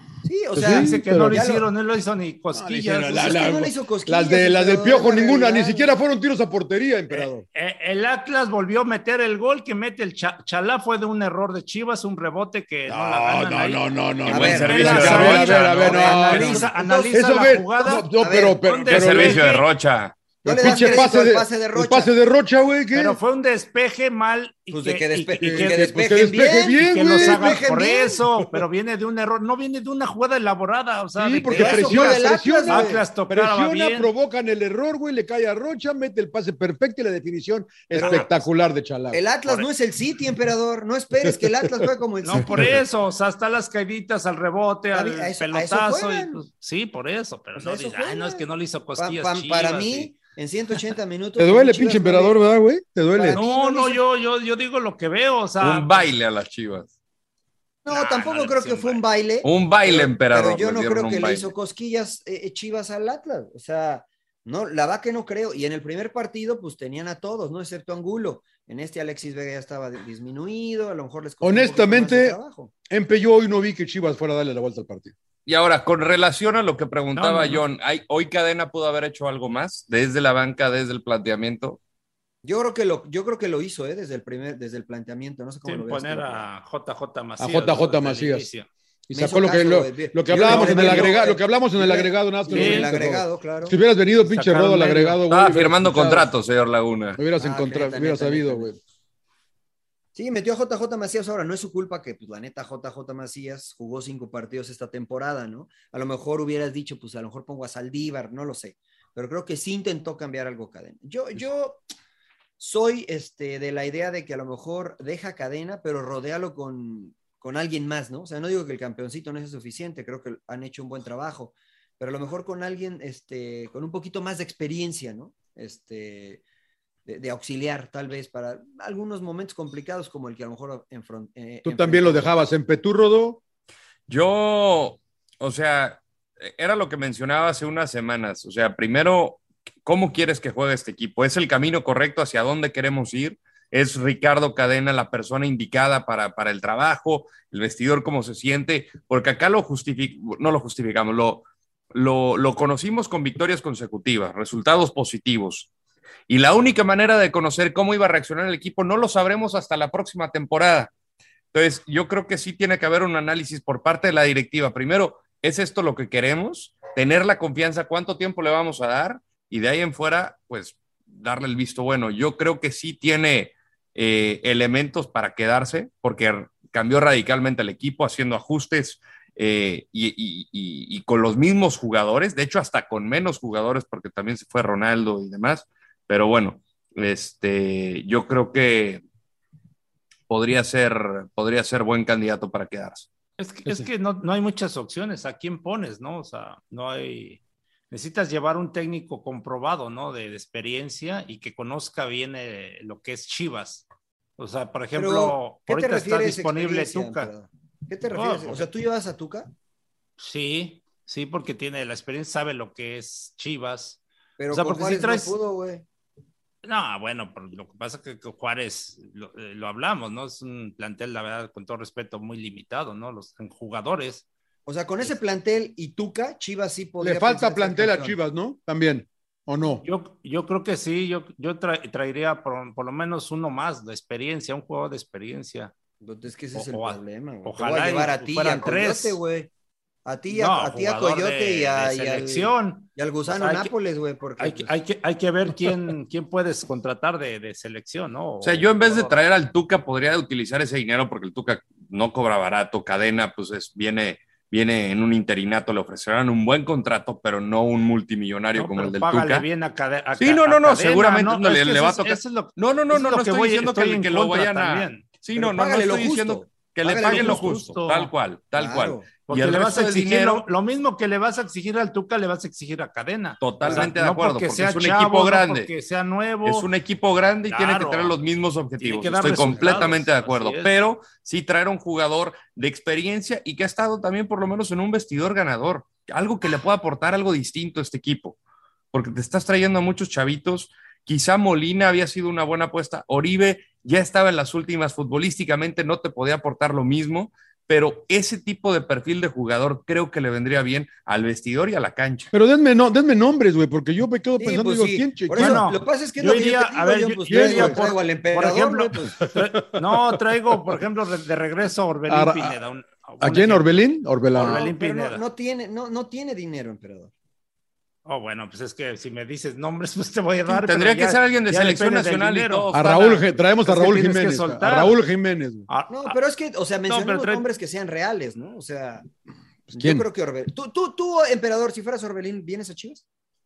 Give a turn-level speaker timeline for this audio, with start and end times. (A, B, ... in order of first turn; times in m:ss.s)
0:00.2-0:01.6 A
0:00.5-0:01.6 B
0:00.6-0:03.4 C
0:02.5-0:07.4 B
0:03.1-0:05.9 A
0:07.1-0:13.8 C
0:12.9-0:19.4 B
0:14.2-0:17.3 A
0:14.3-0:15.8 D
0:14.5-0:18.1 C
0:18.1-0:18.6 A
0:18.6-0:19.6 C
0:18.9-0:20.2 D
0:20.4-0:22.1 A
0:20.4-0:23.2 B
0:20.7-0:21.0 C
0:22.9-0:25.8 C
0:24.7-0:28.2 A
0:25.4-0:27.6 B
0:26.9-0:34.1 C
0:31.2-0:39.2 B
0:31.5-0:33.0 A
0:37.9-0:38.4 A
0:37.9-0:38.4 C
0:39.1-0:42.8 A
0:41.2-0:41.6 B
0:42.2-0:50.1 C
0:44.9-0:46.4 A
0:47.6-0:48.4 A
0:49.0-0:52.4 A
0:51.4-0:53.4 B
0:53.1-0:54.0 A
0:53.3-0:56.1 C
0:55.6-0:56.9 D
0:57.8-1:12.7 A
0:57.9-0:59.0 C
0:59.4-1:01.5 D
1:11.4-1:12.4 B
1:12.9-1:15.1 B
1:15.4-1:21.8 D
1:17.1-1:17.6 C
1:22.4-1:26.5 A
1:25.6-1:28.7 C
1:27.4-1:28.5 B
1:29.1-1:36.3 B
1:29.1-1:33.8 A
1:30.3-1:31.2 C
1:32.5-1:32.9 C
1:34.2-1:35.2 C
1:35.3-1:37.2 D
1:37.2-1:38.8 B
1:37.4-1:38.8 A
1:40.1-1:51.8 A
1:52.6-2:06.4 A
2:07.0-2:12.3 A
2:11.6-2:13.4 B
2:14.1-2:35.7 D
2:36.3-2:40.9 D
2:41.5-3:09.0 D
3:10.3-3:13.1 D
3:13.4-3:17.4 C
3:17.9-3:23.8 C
3:24.4-3:27.3 C
3:24.9-3:29.5 A
3:28.1-3:28.7 C
3:30.2-3:34.0 C
3:34.4-3:35.8 A
3:34.5-3:35.4 C
3:36.6-3:44.2 C
3:44.6-3:48.2 A
3:47.0-3:49.8 B
3:49.8-3:55.7 C
3:56.0-3:59.5 A
3:56.5-3:59.2 C
4:00.0-4:04.7 A
4:00.3-4:03.7 C
4:04.4-4:09.2 C
4:08.4-4:19.4 D
4:18.5-4:25.0 C
4:20.2-4:30.4 D
4:25.3-4:27.5 A
4:26.9-4:28.1 C
4:28.6-4:29.1 A
4:29.3-4:36.7 C
4:33.4-4:35.7 D
4:36.4-4:48.4 D
4:37.5-4:38.2 C
4:38.8-4:40.7 C
4:48.9-5:02.3 D
5:02.3-5:05.6 B
5:04.4-5:09.2 A
5:05.4-5:13.8 C
5:07.3-5:07.8 B
5:09.2-5:10.8 B
5:12.1-5:12.6 B
5:13.2-5:14.6 B
5:14.3-5:15.2 C
5:14.4-5:17.1 A
5:18.0-5:25.0 C
5:20.5-5:23.0 D
5:22.7-5:25.7 B
5:25.7-5:26.2 C
5:25.9-5:29.1 A
5:26.9-5:27.4 C
5:29.7-5:33.0 A
5:29.7-5:30.0 B